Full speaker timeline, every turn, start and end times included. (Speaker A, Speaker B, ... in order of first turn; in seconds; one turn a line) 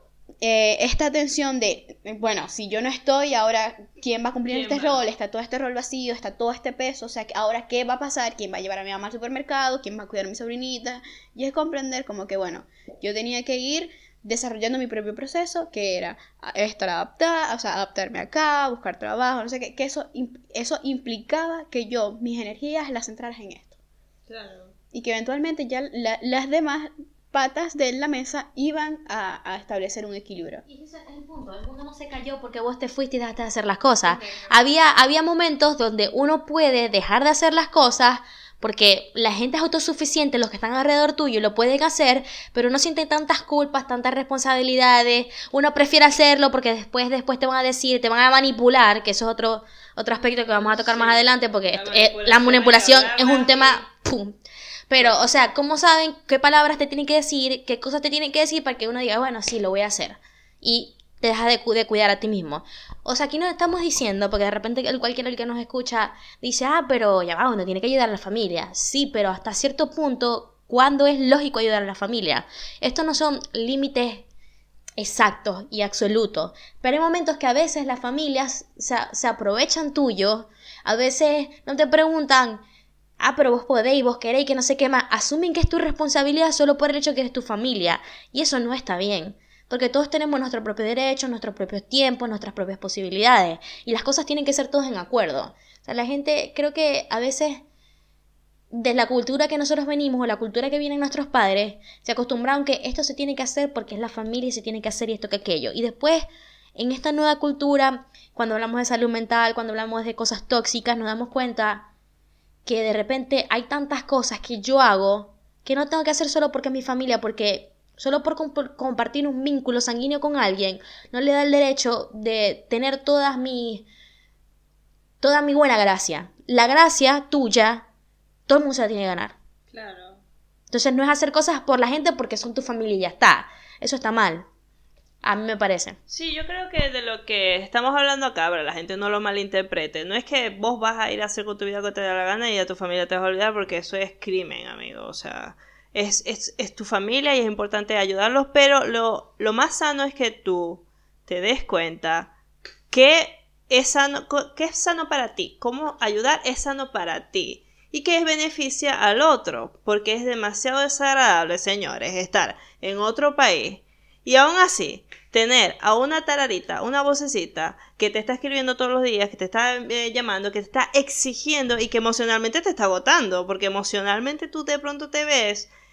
Speaker A: 0.4-23.8
Speaker B: 4.5-5.0
Speaker B: 24.3-24.7
Speaker A: 24.9-30.6
Speaker C: 30.7-74.3
Speaker B: 34.1-34.5
Speaker B: 50.3-53.8
Speaker B: 55.0-55.3
Speaker C: 75.0-82.6
Speaker C: 83.2-97.6
Speaker C: 98.7-111.9
Speaker C: 112.7-123.9
Speaker C: 125.2-127.9
Speaker C: 128.5-129.4
Speaker B: 129.7-130.2
Speaker C: 130.7-134.5
Speaker C: 135.2-136.0
Speaker B: 136.1-152.3
Speaker B: 152.9-175.7